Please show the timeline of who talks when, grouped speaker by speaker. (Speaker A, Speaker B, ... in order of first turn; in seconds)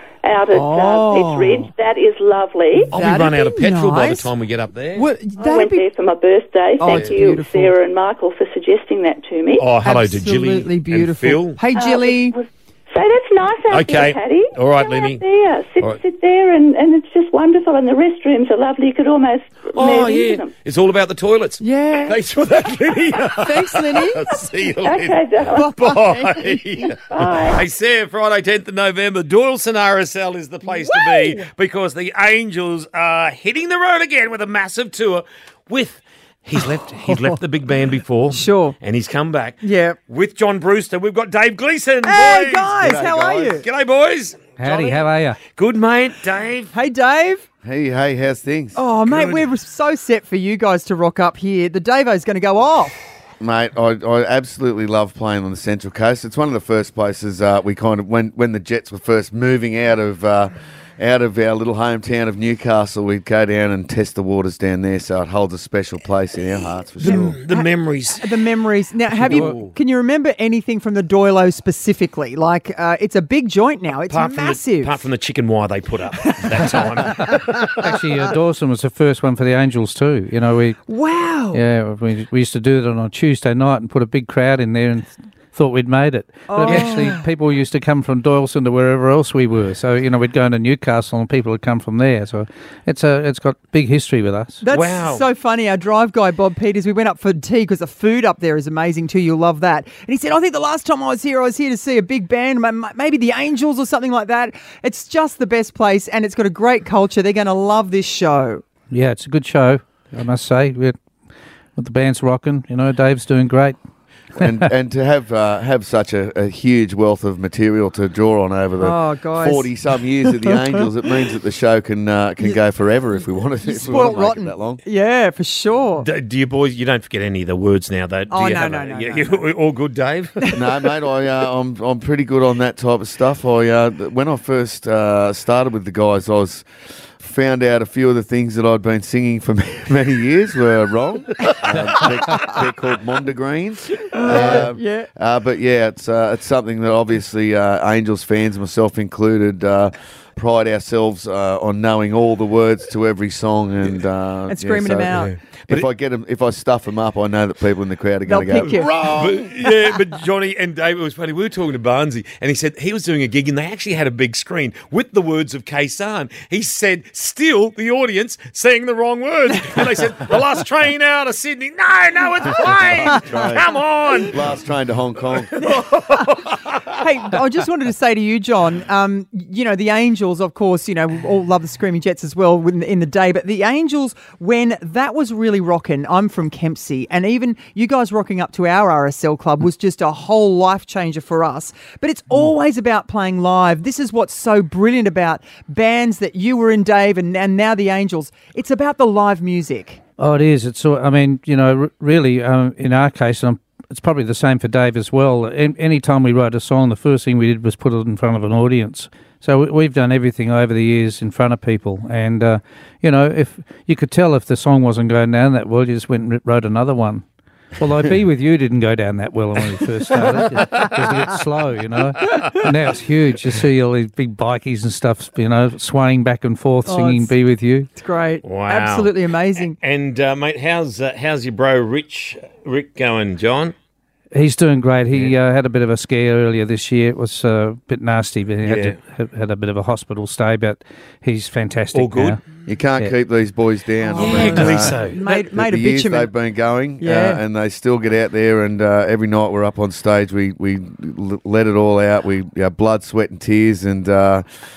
Speaker A: 0.2-2.9, 5.4-9.7, 11.7-20.5, 24.8-25.7, 27.1-27.6
Speaker B: 0.5-1.7, 2.8-4.3, 4.9-5.8, 6.8-7.7, 9.8-12.4, 21.6-22.2, 23.3-24.3, 25.5-26.9, 30.7-31.4, 37.1-37.3, 38.3-38.7, 39.6-40.0, 42.0-43.6, 46.7-47.4, 48.7-52.9, 67.0-75.0, 76.3-77.9, 80.9-81.6, 86.5-87.2, 94.6-108.6, 118.8-119.7, 120.4-120.8, 123.6-126.1, 128.3-129.4, 144.1-145.1, 154.5-155.3, 158.3-158.9, 175.7-200.0, 226.8-227.3, 227.9-229.8, 244.1-246.3, 247.0-247.4
Speaker C: 2.9-5.1, 6.9-7.1, 9.6-11.6, 13.7-15.2, 19.7-42.8, 43.6-46.7, 49.1-49.4, 67.0-68.3, 69.1-69.7, 74.1-77.9, 86.7-87.1, 94.7-95.2, 126.0-130.5, 144.3-144.6, 155.1-155.9, 158.6-174.5, 175.5-176.9, 228.4-229.1, 229.8-233.7, 238.6-238.9, 241.9-242.4, 244.1-245.2
Speaker D: 42.8-43.6, 47.6-48.8, 53.4-67.3, 114.4-124.8, 130.5-136.7, 137.2-159.2, 172.6-173.7, 174.2-175.6, 242.7-254.4
Speaker E: 44.6-45.4, 69.3-69.5, 77.2-80.8, 81.5-94.6, 108.9-111.0, 111.8-113.8, 200.2-217.2, 217.8-227.9, 234.3-242.4